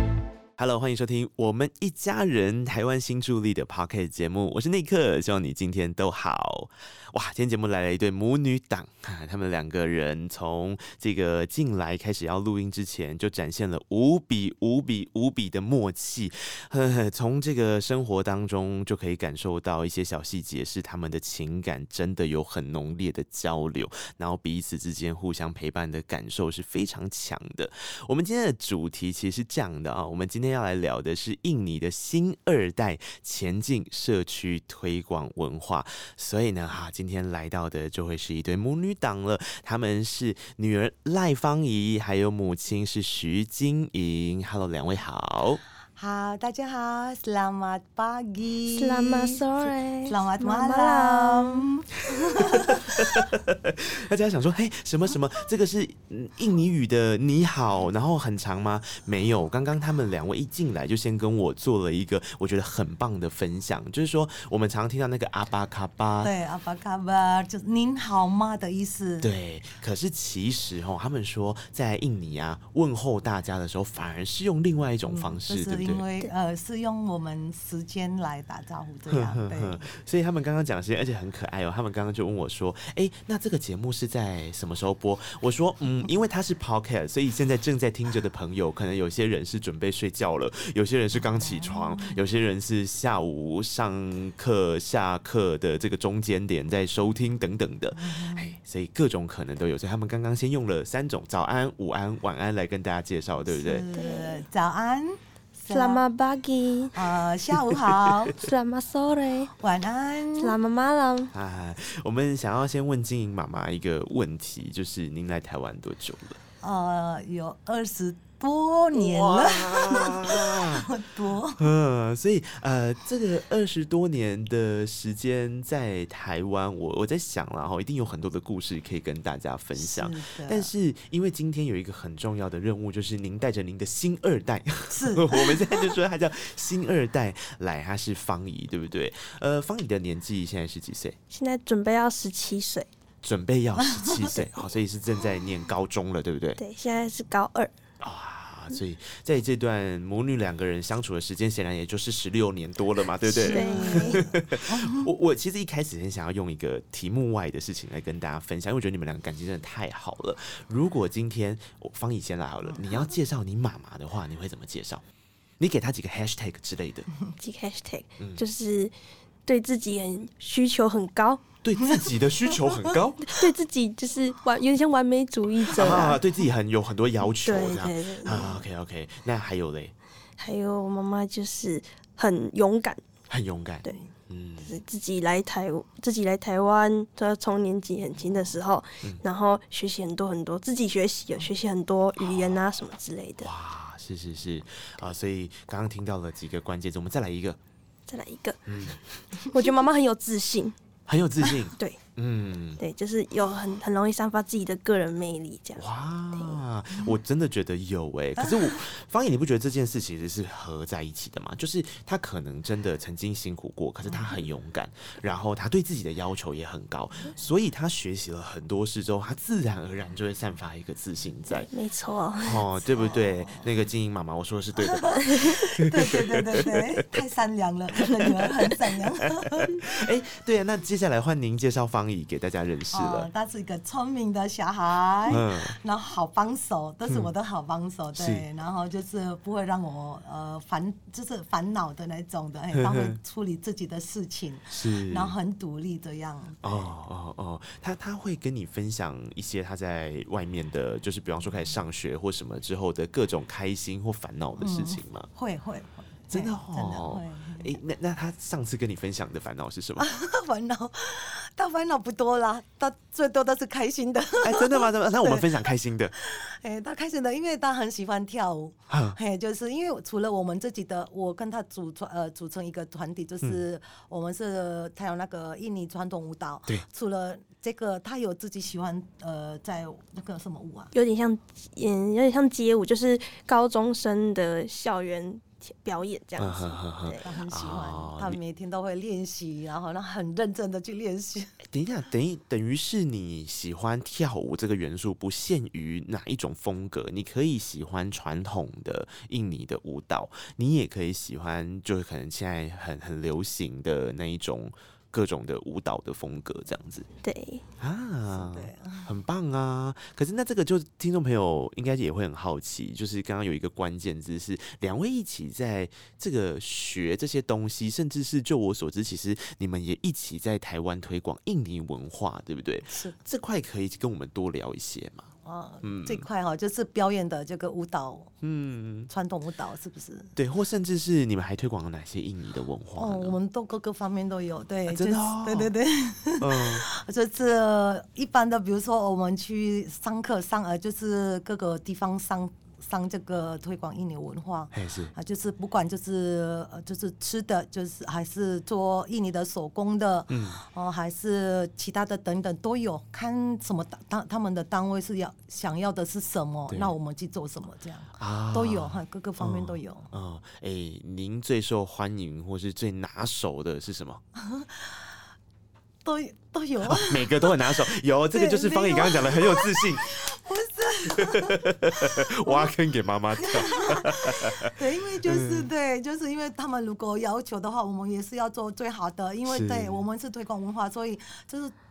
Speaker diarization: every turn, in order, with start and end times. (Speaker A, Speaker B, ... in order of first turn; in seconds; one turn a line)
Speaker A: 0.6-45.6
Speaker B: 46.0-49.4
Speaker C: 48.7-51.6
Speaker B: 50.0-53.0
Speaker A: 52.9-66.3
Speaker B: 66.2-69.3
Speaker A: 69.2-76.0
Speaker B: 75.1-79.9
Speaker A: 79.1-103.8
Speaker B: 91.5-92.2
Speaker B: 98.0-98.5
Speaker B: 103.5-106.0
Speaker C: 103.9-104.4
Speaker C: 105.7-107.0
Speaker B: 106.9-108.3
Speaker A: 107.8-108.3
Speaker C: 108.3-109.5
Speaker B: 109.6-110.5
Speaker C: 110.4-111.3
Speaker A: 111.3-116.4
Speaker B: 116.6-121.7
Speaker A: 118.9-120.9
Speaker A: 121.6-141.2
Speaker B: 129.8-130.7
Speaker B: 134.9-135.9
Speaker C: 141.3-142.9
Speaker A: 143.2-146.6
Speaker B: 144.0-144.3
Speaker C: 146.6-147.7
Speaker A: 148.0-165.0
Speaker B: 153.2-155.1
Speaker C: 153.4-154.3
Speaker B: 162.6-163.0
Speaker A: 165.6-167.1
Speaker C: 167.4-168.9
Speaker C: 169.4-171.5
Speaker A: 171.6-173.4
Speaker C: 173.2-176.2
Speaker A: 175.7-179.9
Speaker C: 177.4-178.5
Speaker C: 180.4-183.0
Speaker A: 183.3-184.8
Speaker C: 184.6-193.5
Speaker A: 192.2-192.6
Speaker A: 193.4-197.6
Speaker C: 198.1-200.7
Speaker A: 198.7-199.0
Speaker A: 201.1-202.8
Speaker C: 202.8-206.6
Speaker A: 205.8-221.7
Speaker C: 221.7-222.6
Speaker A: 222.4-227.0
Speaker B: 222.7-223.7
Speaker B: 224.8-229.8
Speaker C: 225.2-225.5
Speaker A: 229.4-233.3
Speaker B: 232.9-246.8
Speaker A: 235.3-235.8
Speaker A: 238.2-238.4
Speaker A: 242.7-243.2
Speaker A: 244.7-245.3
Speaker A: 246.6-255.3
Speaker B: 254.6-257.7
Speaker A: 256.3-260.1
Speaker B: 260.0-265.5
Speaker A: 264.4-266.1
Speaker B: 266.2-280.9
Speaker A: 268.9-269.2
Speaker C: 280.9-287.2
Speaker A: 286.4-288.4
Speaker B: 287.2-291.6
Speaker A: 291.7-307.1
Speaker C: 307.2-307.6
Speaker A: 307.8-325.3
Speaker B: 308.3-309.1
Speaker B: 325.4-328.3
Speaker A: 325.8-326.2
Speaker A: 328.4-329.1
Speaker B: 329.1-330.3
Speaker A: 330.4-333.4
Speaker B: 333.0-360.1
Speaker A: 334.9-335.7
Speaker A: 336.4-336.8
Speaker A: 344.7-345.1
Speaker A: 350.3-350.6
Speaker A: 356.7-356.9
Speaker A: 358.2-364.2
Speaker B: 364.4-365.0
Speaker B: 366.0-372.7
Speaker A: 366.9-370.1
Speaker A: 371.1-374.7
Speaker B: 373.4-381.7
Speaker A: 375.2-375.7
Speaker A: 379.5-380.0